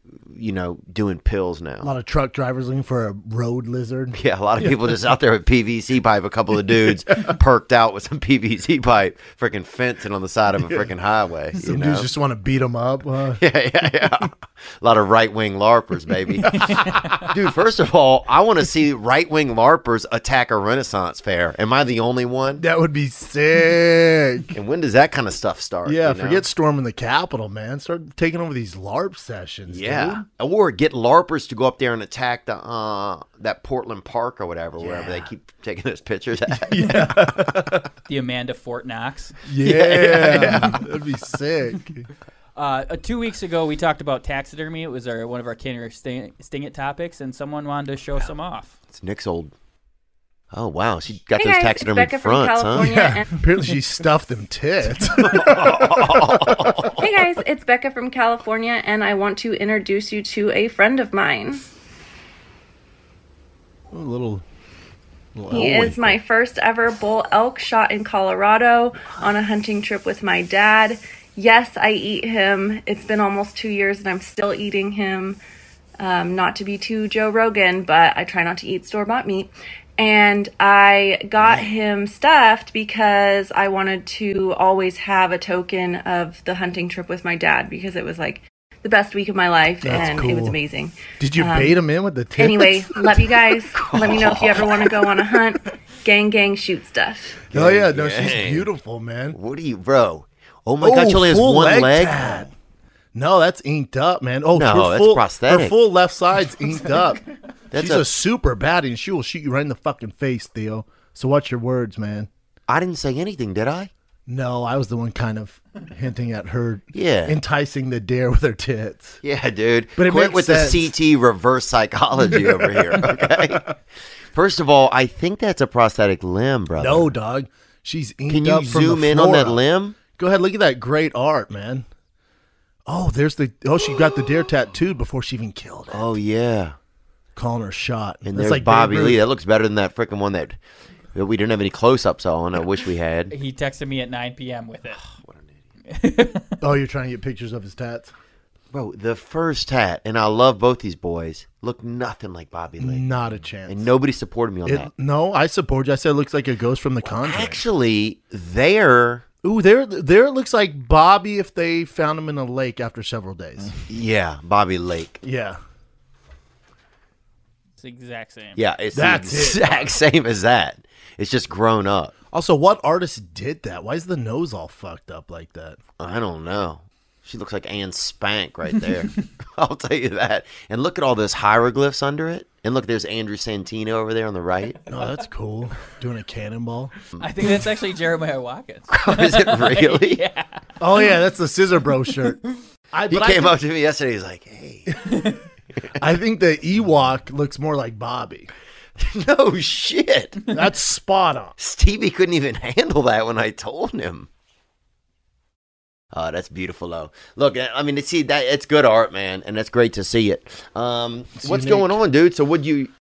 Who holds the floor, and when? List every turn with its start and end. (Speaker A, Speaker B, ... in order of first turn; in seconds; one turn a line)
Speaker A: 0.2-1.9
Speaker B: 1.8-5.0
Speaker A: 4.1-12.1
Speaker B: 11.6-13.4
Speaker A: 13.4-22.6
Speaker B: 16.5-17.2
Speaker B: 22.6-24.5
Speaker A: 24.5-26.5
Speaker B: 25.9-30.2
Speaker A: 29.7-37.3
Speaker B: 34.8-35.3
Speaker B: 36.5-37.9
Speaker C: 38.1-39.4
Speaker B: 39.5-42.1
Speaker A: 39.6-40.9
Speaker C: 42.6-48.8
Speaker A: 48.9-49.5
Speaker A: 50.5-52.9
Speaker D: 51.4-53.3
Speaker B: 52.7-56.9
Speaker A: 55.1-57.0
Speaker D: 57.0-61.7
Speaker B: 63.9-64.4
Speaker B: 65.3-66.2
Speaker D: 65.5-75.4
Speaker D: 76.0-91.8
Speaker B: 89.8-90.6
Speaker B: 91.2-93.3
Speaker D: 92.4-97.4
Speaker A: 93.8-94.9
Speaker A: 97.5-98.7
Speaker B: 97.5-99.4
Speaker A: 99.3-102.5
Speaker B: 100.8-102.5
Speaker B: 103.1-107.2
Speaker A: 104.5-105.8
Speaker A: 107.7-108.0
Speaker B: 107.7-112.3
Speaker A: 112.7-113.9
Speaker B: 114.3-119.2
Speaker A: 116.9-117.4
Speaker A: 119.2-123.8
Speaker B: 120.0-120.9
Speaker B: 122.2-123.7
Speaker A: 124.3-127.1
Speaker B: 126.8-131.9
Speaker A: 128.3-130.0
Speaker B: 132.9-136.1
Speaker A: 135.9-136.8
Speaker B: 137.4-139.2
Speaker A: 138.2-140.6
Speaker A: 141.2-143.3
Speaker C: 143.3-145.0
Speaker A: 145.2-145.5
Speaker C: 145.9-146.5
Speaker B: 146.6-148.1
Speaker A: 148.7-153.2
Speaker B: 152.8-153.9
Speaker A: 153.7-154.9
Speaker B: 154.7-157.6
Speaker A: 157.1-159.2
Speaker B: 159.4-163.8
Speaker A: 163.9-165.2
Speaker B: 165.2-165.6
Speaker C: 167.8-168.6
Speaker A: 168.6-172.1
Speaker B: 168.9-170.0
Speaker B: 172.3-175.8
Speaker A: 176.0-184.8
Speaker B: 184.9-186.9
Speaker C: 187.2-190.6
Speaker A: 188.9-190.2
Speaker B: 190.8-192.4
Speaker B: 192.9-193.6
Speaker A: 193.1-195.1
Speaker B: 196.0-198.5
Speaker A: 199.0-200.4
Speaker B: 200.5-201.6
Speaker A: 201.6-204.3
Speaker A: 206.1-212.9
Speaker B: 211.4-212.0